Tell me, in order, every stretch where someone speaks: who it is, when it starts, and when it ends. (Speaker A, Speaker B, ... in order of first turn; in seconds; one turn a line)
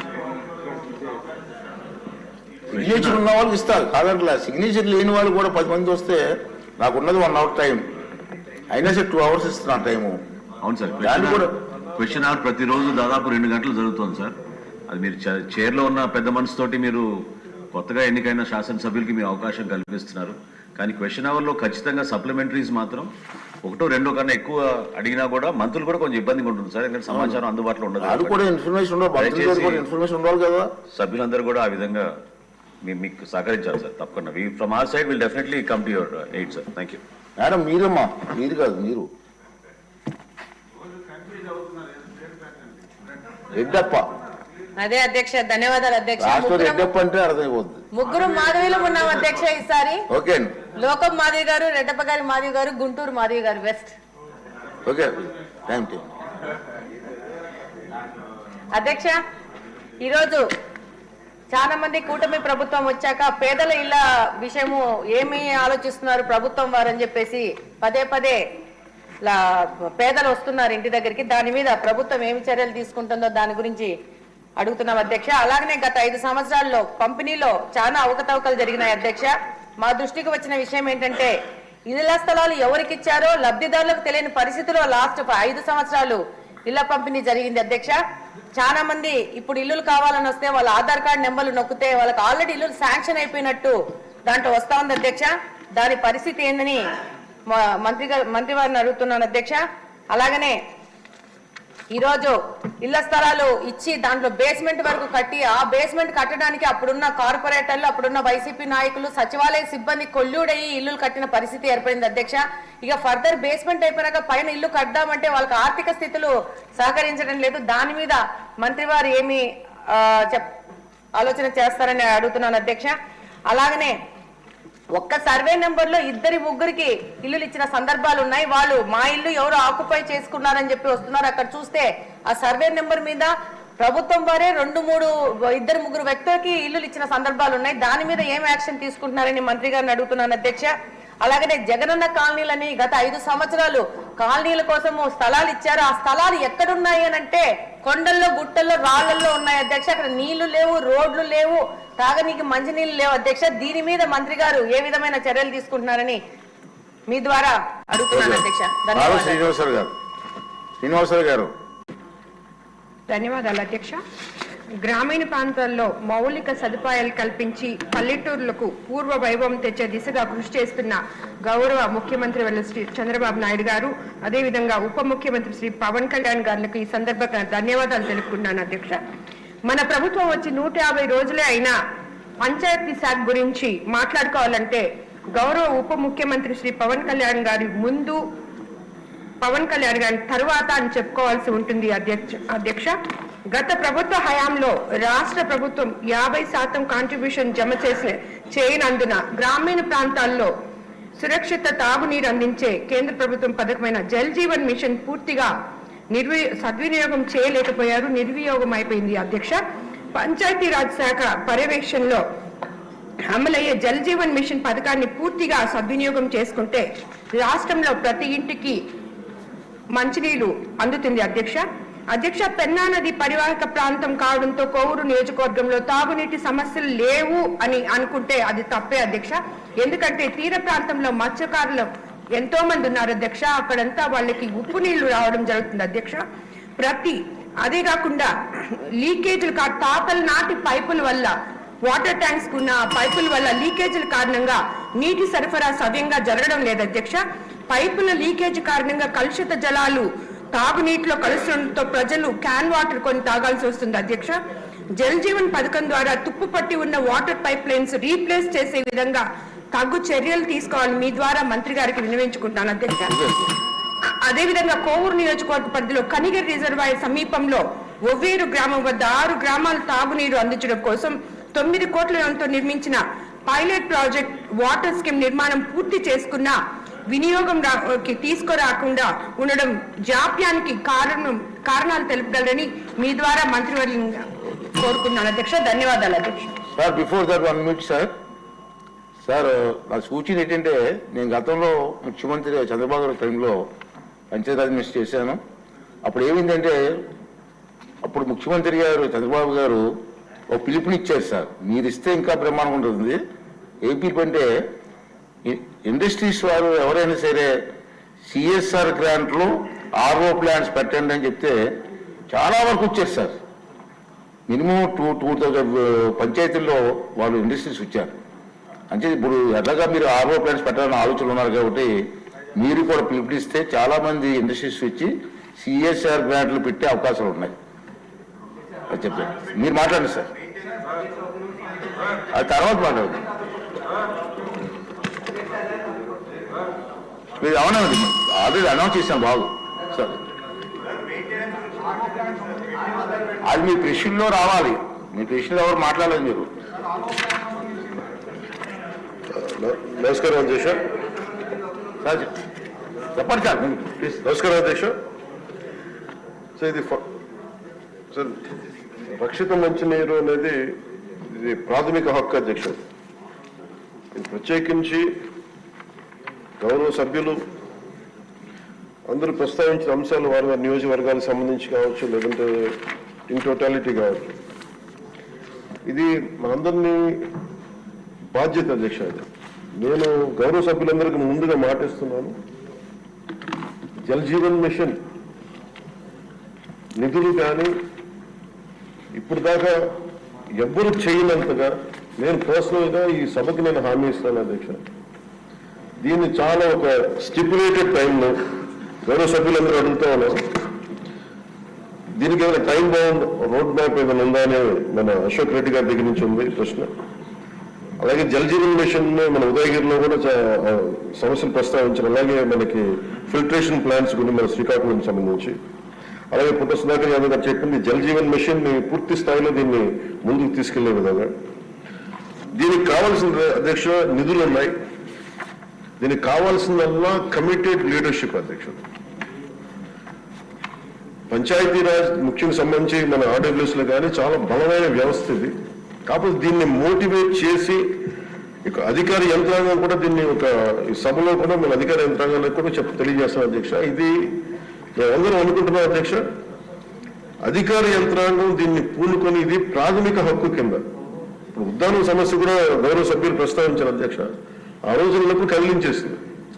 Speaker A: 2.7-3.2
Speaker B: 2.8-7.9
Speaker B: 8.7-10.2
Speaker A: 10.6-14.3
Speaker B: 11.0-11.5
Speaker A: 14.9-17.1
Speaker A: 17.7-23.1
Speaker A: 23.6-28.4
Speaker B: 27.1-27.4
Speaker B: 28.0-30.7
Speaker A: 29.1-29.9
Speaker A: 30.9-32.1
Speaker A: 32.8-37.0
Speaker B: 37.4-39.1
Speaker B: 43.5-44.1
Speaker C: 44.8-46.9
Speaker B: 46.2-47.8
Speaker C: 47.9-50.0
Speaker B: 50.1-50.5
Speaker C: 50.8-53.9
Speaker B: 54.8-56.1
Speaker C: 58.7-59.1
Speaker C: 60.0-60.4
Speaker C: 61.5-68.4
Speaker C: 69.2-73.9
Speaker C: 74.6-79.3
Speaker C: 79.8-81.3
Speaker C: 81.9-87.9
Speaker C: 88.5-93.8
Speaker C: 94.3-96.8
Speaker C: 97.5-99.6
Speaker C: 100.1-100.6
Speaker C: 101.9-120.5
Speaker C: 121.2-123.0
Speaker C: 123.5-124.0
Speaker C: 124.9-140.7
Speaker C: 141.2-156.2
Speaker C: 157.1-159.4
Speaker B: 158.1-159.9
Speaker B: 160.8-161.5
Speaker D: 163.1-164.0
Speaker D: 164.8-179.0
Speaker D: 179.6-181.7
Speaker D: 182.4-188.2
Speaker D: 189.4-192.9
Speaker D: 193.5-200.5
Speaker D: 201.2-205.5
Speaker D: 206.1-209.6
Speaker D: 210.1-212.2
Speaker D: 213.3-218.8
Speaker D: 219.9-236.2
Speaker D: 236.8-254.4
Speaker D: 254.9-263.2
Speaker B: 263.1-263.5
Speaker D: 264.2-276.5
Speaker D: 277.1-286.5
Speaker B: 286.7-288.1
Speaker B: 289.2-293.7
Speaker B: 294.3-295.4
Speaker B: 296.0-297.0
Speaker B: 298.0-299.9
Speaker B: 300.5-303.2
Speaker B: 303.8-304.5
Speaker B: 305.4-307.6
Speaker B: 308.3-311.6
Speaker B: 312.3-313.4
Speaker B: 314.5-318.2
Speaker B: 318.9-322.0
Speaker B: 322.6-327.5
Speaker B: 328.9-330.3
Speaker B: 332.3-333.2
Speaker B: 337.4-340.2
Speaker B: 343.4-346.5
Speaker E: 349.3-350.8
Speaker B: 352.0-352.3
Speaker B: 353.1-354.2
Speaker E: 354.2-354.9
Speaker E: 356.6-357.0
Speaker E: 358.1-358.4
Speaker E: 359.1-360.7
Speaker E: 361.3-362.8
Speaker E: 364.1-365.1
Speaker E: 366.6-367.4
Speaker E: 369.1-372.8
Speaker E: 373.3-374.4
Speaker E: 375.9-377.0
Speaker E: 378.3-379.2
Speaker E: 379.8-382.3
Speaker E: 384.0-385.0
Speaker E: 387.0-387.7
Speaker E: 389.1-389.8
Speaker E: 390.6-394.8
Speaker E: 396.0-398.4
Speaker E: 399.0-400.4
Speaker E: 402.2-406.9
Speaker E: 408.0-415.5
Speaker E: 416.3-421.3
Speaker E: 422.5-424.7
Speaker E: 426.0-428.8
Speaker E: 431.3-435.5
Speaker E: 436.1-437.8
Speaker E: 438.6-444.1
Speaker E: 445.0-446.2
Speaker E: 447.4-450.8
Speaker E: 451.5-454.3
Speaker E: 454.9-456.2